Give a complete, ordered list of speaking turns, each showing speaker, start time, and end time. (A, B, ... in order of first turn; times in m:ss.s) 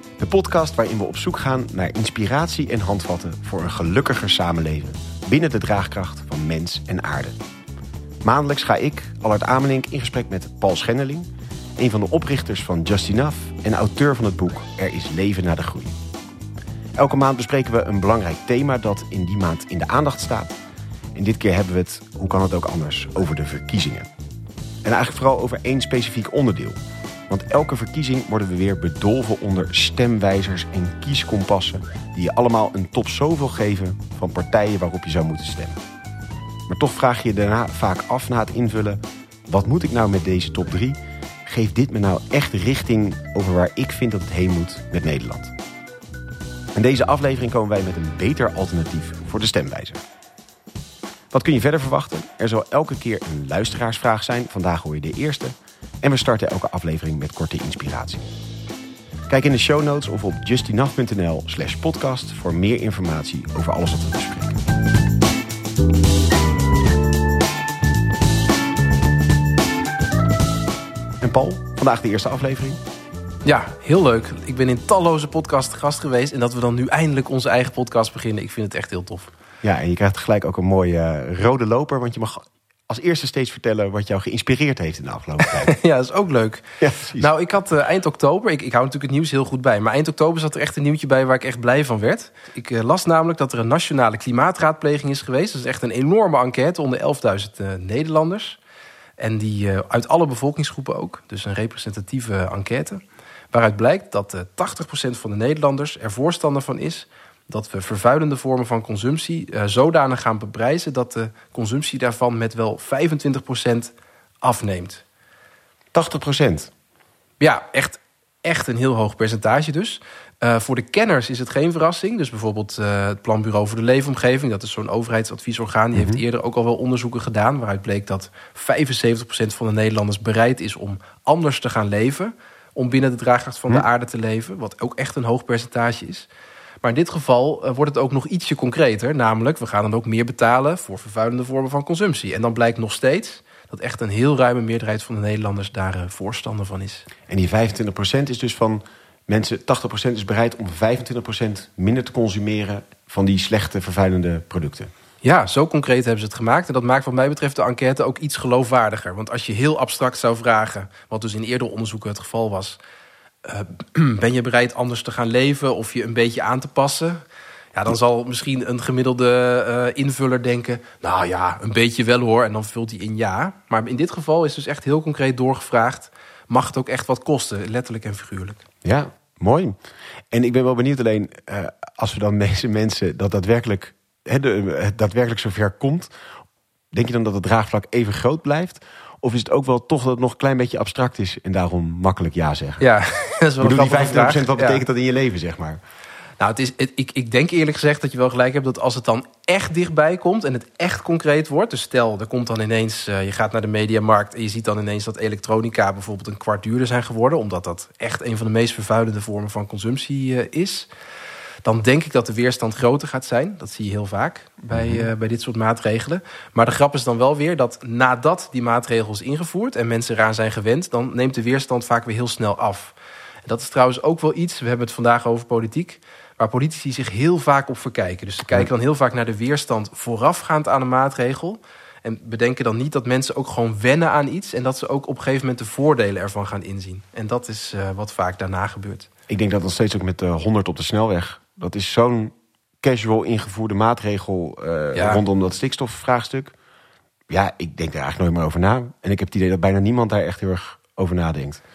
0:00.2-0:07.4 A
0:08.2-0:16.0 A
0:17.0-0:20.5 A
0:21.1-0:24.1 A
0:24.8-0:26.8 A
0:27.3-0:35.8 A
0:36.7-0:45.5 A
0:46.8-0:50.0 A
0:51.3-0:58.3 A
0:59.3-1:04.6 A
1:11.2-1:12.8 A
1:13.4-1:19.3 B
1:19.6-1:25.8 A
1:25.6-1:38.6 B
1:26.8-1:27.3 A
1:39.2-1:43.0 B
1:43.5-1:55.0 B
1:55.9-1:56.7 A
1:57.4-2:16.3 B
2:06.0-2:06.2 A
2:16.8-2:27.1 B
2:27.3-2:34.9 A
2:35.2-2:42.8 B
2:43.4-2:47.2 B
2:47.7-2:58.6 B
2:58.8-2:59.8 A
3:00.3-3:06.1 A
3:06.9-3:12.8 A
3:12.8-3:14.8 B
3:13.6-3:15.8 A
3:16.4-3:30.9 B
3:31.6-3:43.0 B
3:34.7-3:35.1 A
3:43.5-3:59.1 B
3:59.3-4:06.5 A
4:05.0-4:05.2 B
4:07.3-4:11.6 A